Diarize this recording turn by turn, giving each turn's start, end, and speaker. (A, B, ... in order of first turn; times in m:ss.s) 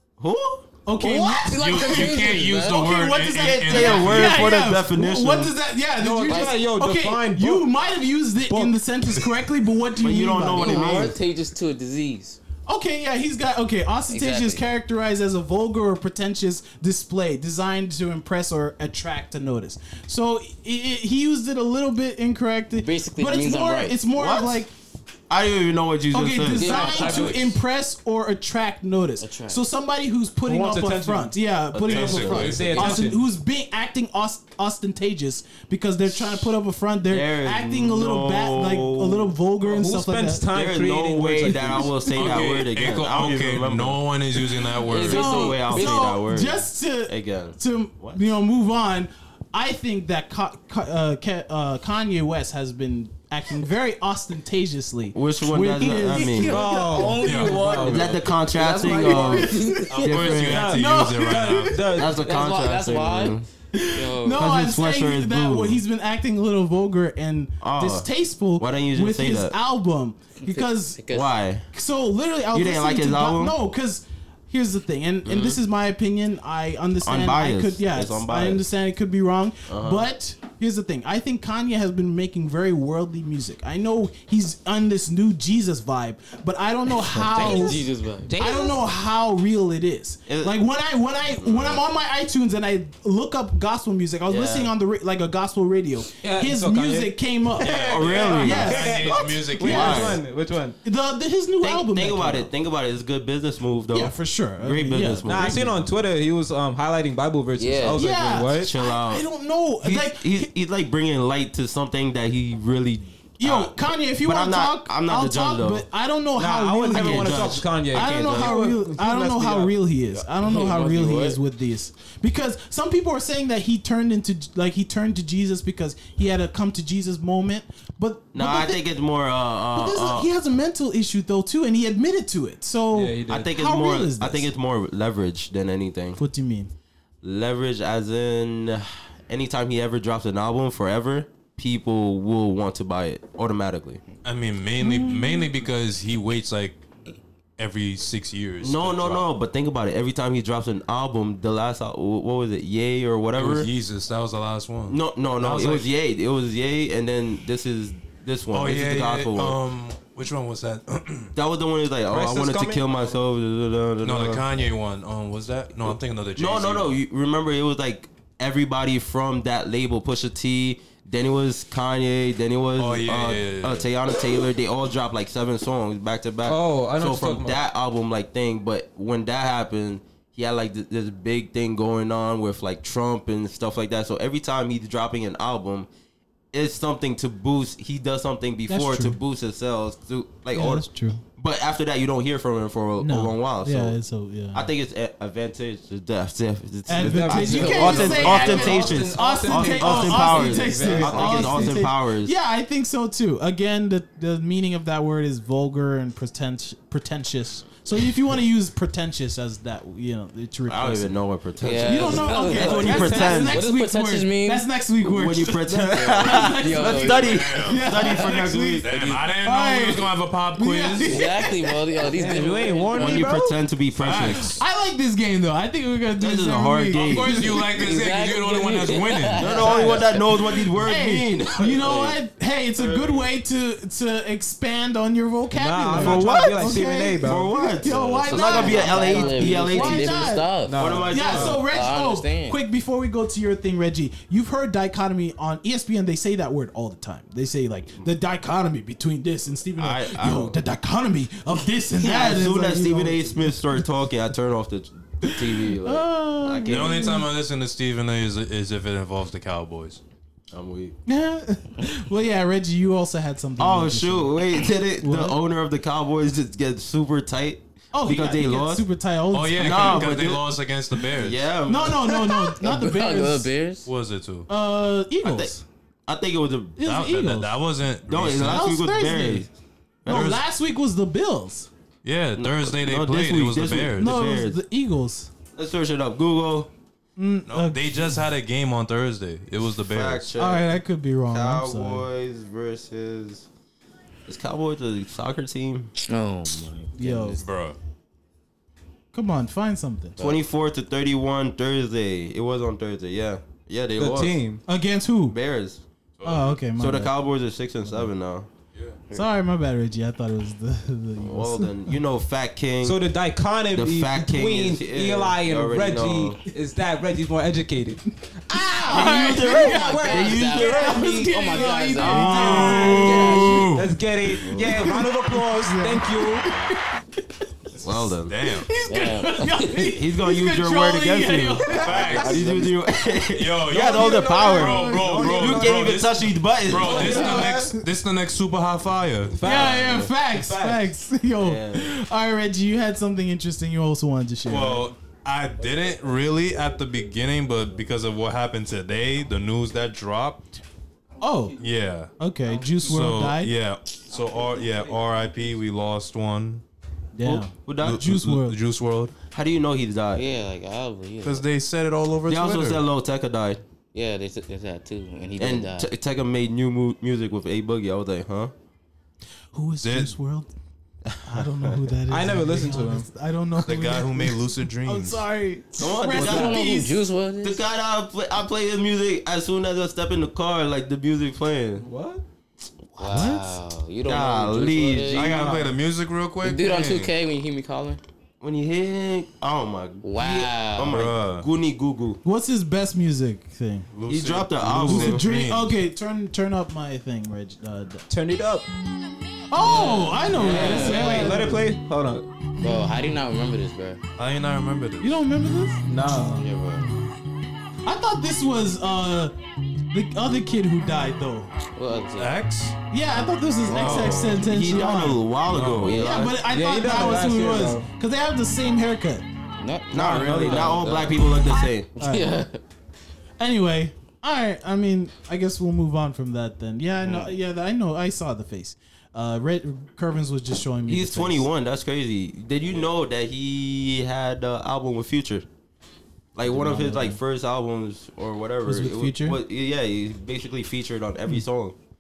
0:00.2-0:00.7 A
0:00.9-0:11.0 B
0:01.0-0:03.0 C
0:01.5-0:04.5 D
0:03.3-0:05.5 A
0:06.0-0:07.7 E
0:06.3-0:06.6 C
0:08.5-0:08.8 E
0:10.0-0:11.2 A
0:10.5-0:12.4 C
0:10.8-0:11.1 E
0:12.7-0:24.7 B
0:14.1-0:14.6 C
0:22.8-0:24.0 C
0:24.1-0:24.6 A
0:25.3-0:26.8 A
0:26.1-0:40.5 B
0:26.5-0:27.5 C
0:26.7-0:27.6 E
0:29.2-0:29.6 C
0:30.5-0:31.3 E
0:31.7-0:32.7 A
0:31.9-0:33.2 E
0:31.9-0:32.7 D
0:32.5-0:33.1 C
0:37.1-0:39.3 A
0:39.6-0:42.9 E
0:40.5-0:44.0 A
0:42.1-0:45.4 D
0:44.8-0:46.0 C
0:45.0-0:57.8 B
0:45.2-0:48.2 A
0:55.1-0:56.6 A
0:56.1-0:59.9 C
0:56.4-0:58.1 E
0:57.2-0:57.6 D
0:57.8-1:00.8 A
0:58.6-1:02.0 B
0:59.9-1:01.8 D
1:00.3-1:02.2 E
1:01.9-1:03.5 A
1:02.0-1:03.4 C
1:03.7-1:11.0 B
1:03.9-1:04.5 C
1:04.4-1:05.8 A
1:07.6-1:09.5 A
1:10.4-1:11.3 C
1:11.1-1:11.7 A
1:11.7-1:27.8 B
1:12.5-1:13.6 A
1:15.2-1:15.6 A
1:17.0-1:18.6 A
1:19.7-1:20.1 A
1:27.1-1:28.8 C
1:27.3-1:27.8 E
1:28.4-1:40.1 B
1:30.3-1:30.6 A
1:31.5-1:31.8 A
1:34.3-1:34.7 A
1:36.2-1:40.8 E
1:37.6-1:39.0 A
1:37.6-1:40.2 D
1:39.6-1:40.2 A
1:40.8-1:42.5 B
1:41.6-1:45.9 A
1:43.9-1:45.6 B
1:45.2-1:48.7 E
1:47.6-1:48.0 C
1:47.9-1:50.5 B
1:48.6-1:49.3 A
1:49.8-1:55.8 A
1:53.4-2:08.8 B
1:56.4-1:59.8 E
1:56.9-1:58.5 A
2:00.4-2:01.4 C
2:08.3-2:10.3 A
2:09.8-2:14.5 B
2:12.9-2:13.5 E
2:13.3-2:16.2 A
2:16.2-2:16.7 B
2:17.2-2:24.0 A
2:24.2-2:26.8 D
2:24.8-2:25.5 B
2:27.6-2:29.3 D
2:28.6-2:33.7 A
2:33.4-2:35.9 D
2:34.9-2:39.6 A
2:38.5-2:41.3 D
2:41.4-2:44.5 A
2:42.1-2:43.1 E
2:44.0-2:47.0 D
2:46.4-3:05.9 A
2:52.8-2:53.9 D
2:56.4-2:57.6 E
3:06.5-3:14.0 A
3:08.7-3:09.2 B
3:10.5-3:11.2 B
3:13.0-3:14.7 B
3:14.5-3:22.3 A
3:16.9-3:31.1 B
3:16.9-3:21.8 E
3:17.4-3:19.1 C
3:30.7-3:33.6 A
3:31.6-3:34.7 C
3:31.8-3:42.0 B
3:32.6-3:33.5 E
3:35.0-3:39.2 A
3:36.2-3:37.5 C
3:37.0-3:38.0 D
3:38.8-3:41.2 D
3:41.1-3:43.3 C
3:42.1-3:43.6 E
3:42.9-3:44.6 A
3:44.0-3:44.6 D
3:44.1-3:47.6 B
3:46.2-3:47.5 A
3:46.9-3:49.5 D
3:47.4-3:50.1 C
3:49.4-3:52.2 A
3:49.5-3:50.0 E
3:50.8-4:00.5 B
3:52.8-3:53.3 A
3:55.5-3:58.1 E
3:55.9-3:56.4 A
3:57.2-4:01.6 A
3:58.2-4:02.6 C
4:00.6-4:01.6 E
4:01.1-4:13.8 B
4:09.8-4:10.6 A
4:12.0-4:17.2 A
4:15.2-4:17.3 B
4:16.6-4:20.0 D
4:20.5-4:21.0 A
4:21.1-4:25.4 B
4:23.6-4:28.8 A
4:27.9-4:30.1 B
4:29.3-4:31.4 D
4:29.6-4:32.4 A
4:31.7-4:33.5 B
4:32.4-4:33.9 C
4:33.9-4:34.5 D
4:34.5-4:35.6 B
4:35.2-4:35.5 A
4:36.1-4:36.8 A
4:36.8-4:37.6 B
4:36.8-4:38.7 D
4:38.1-4:39.5 A
4:38.4-4:39.5 B
4:40.0-4:40.4 A
4:40.1-4:41.7 B
4:40.1-4:40.4 D
4:42.0-4:44.1 D
4:42.4-4:44.6 A
4:44.0-4:45.3 B
4:45.6-4:46.7 A
4:47.2-4:48.2 B
4:47.5-4:50.3 D
4:49.9-4:50.8 A
4:50.4-4:52.1 B
4:51.3-4:53.5 A
4:54.3-4:55.9 A
4:56.0-4:57.4 C
4:57.0-4:57.4 B
4:57.4-4:57.8 D
4:59.1-5:00.2 B
5:00.2-5:04.4 A
5:04.0-5:04.6 E
5:04.7-5:05.4 B
5:05.3-5:05.8 A
5:06.2-5:06.6 D
5:06.2-5:07.1 B
5:06.8-5:08.5 A
5:09.1-5:12.0 B
5:11.2-5:13.0 A
5:12.8-5:18.0 E
5:13.7-5:16.4 A
5:18.5-5:23.7 B
5:18.8-5:20.6 E
5:18.9-5:21.3 A
5:19.1-5:23.7 C
5:22.0-5:24.0 D
5:22.2-5:26.5 E
5:24.3-5:27.0 B
5:27.8-5:28.4 A
5:28.2-5:28.7 D
5:28.5-5:32.4 B
5:28.9-5:29.9 C
5:29.9-5:37.4 A
5:31.7-5:32.6 E
5:31.7-5:32.6 D
5:32.1-5:32.7 C
5:33.3-5:39.6 D
5:33.7-5:36.0 E
5:34.6-5:35.4 B
5:36.7-5:37.7 E
5:36.9-5:37.8 B
5:39.4-5:40.9 E
5:39.4-5:44.9 B
5:41.4-5:41.9 A
5:44.4-5:50.5 D
5:51.2-5:51.6 B
5:51.6-5:52.1 D
5:52.2-5:53.6 B
5:52.8-5:56.6 D
5:54.2-5:55.0 E
5:57.2-5:58.6 B
5:57.3-5:58.0 A
5:57.4-5:59.2 D
5:59.3-6:00.2 A
6:00.2-6:01.4 C
6:01.2-6:02.8 D
6:02.3-6:03.6 A
6:03.9-6:05.9 C
6:05.4-6:08.5 A
6:09.5-6:10.5 B
6:09.8-6:10.1 D
6:11.1-6:11.8 A
6:11.2-6:17.0 B
6:12.1-6:13.1 E
6:13.6-6:15.2 D
6:15.8-6:16.6 A
6:16.1-6:17.6 C
6:17.4-6:21.9 A
6:21.8-6:22.2 E
6:23.0-6:25.6 C
6:23.0-6:23.6 B
6:24.0-6:25.6 A
6:25.1-6:27.1 D
6:26.4-6:28.0 C
6:28.4-6:32.2 A
6:30.0-6:31.0 C
6:30.9-6:31.5 D
6:32.2-6:33.9 B
6:33.9-6:35.8 D
6:34.1-6:35.3 A
6:34.8-6:38.0 B
6:38.1-6:38.7 E
6:39.5-6:41.7 B
6:39.6-6:41.4 C
6:39.8-6:42.3 E
6:40.4-6:41.0 A
6:42.6-6:44.0 C
6:44.2-6:45.2 D
6:45.0-6:45.8 B
6:45.8-6:46.4 E
6:46.3-6:46.9 C
6:47.8-6:49.3 B
6:49.9-6:51.5 B
6:51.8-6:52.4 C
6:52.2-6:52.8 D
6:52.9-6:55.2 B
6:53.7-6:54.5 D
6:53.7-6:56.4 A
6:55.5-6:57.9 E
6:55.9-6:59.3 B
6:59.6-7:02.6 C
6:59.9-7:01.9 A
7:00.2-7:00.8 E
7:02.0-7:02.5 B
7:03.4-7:11.5 B
7:10.9-7:15.4 A
7:16.4-7:21.8 A
7:16.5-7:17.2 B
7:18.6-7:19.4 B